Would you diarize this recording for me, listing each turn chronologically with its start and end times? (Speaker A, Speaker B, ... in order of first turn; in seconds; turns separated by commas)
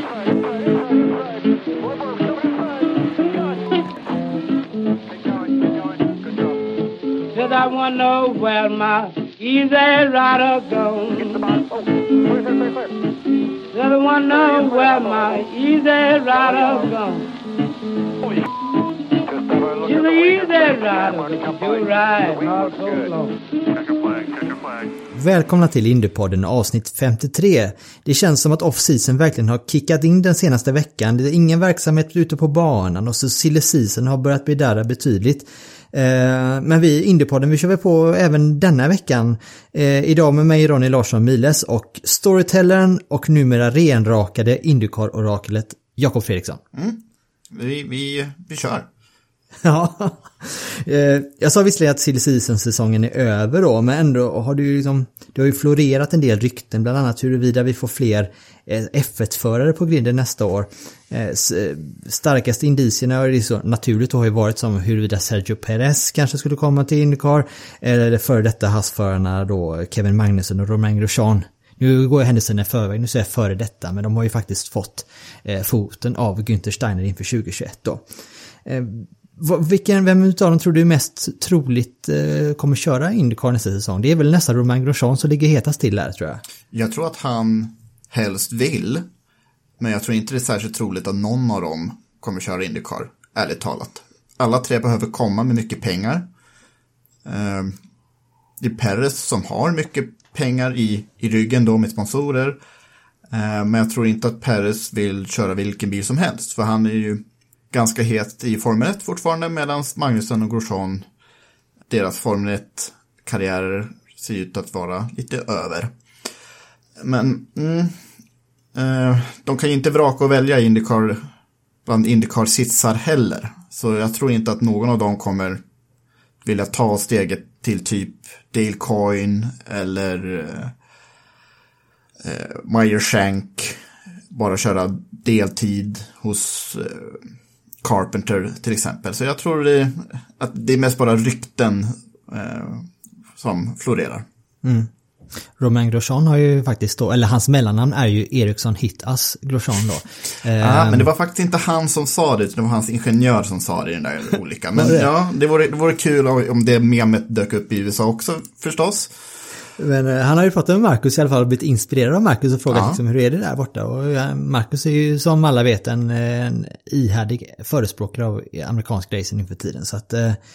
Speaker A: 7.3-11.6, Speaker A: 13.7-17.3, Speaker A: 19.8-23.4, Speaker B: 25.1-46.6, Speaker C: 46.7-48.9, Speaker B: 49.6-78.0, Speaker B: 78.7-86.4, Speaker C: 86.7-89.1, Speaker C: 89.8-96.3, Speaker C: 97.2-97.8, Speaker C: 98.6-102.6, Speaker C: 103.3-111.1, Speaker C: 111.9-115.9, Speaker C: 117.0-118.0, Speaker C: 118.8-121.3, Speaker C: 121.9-125.6, Speaker C: 126.4-130.8, Speaker C: 132.2-137.3, Speaker C: 137.8-144.3, Speaker B: 144.6-144.9, Speaker B: 145.6-151.1, Speaker C: 150.6-159.1, Speaker B: 154.8-155.1, Speaker B: 159.8-170.4, Speaker C: 162.7-163.0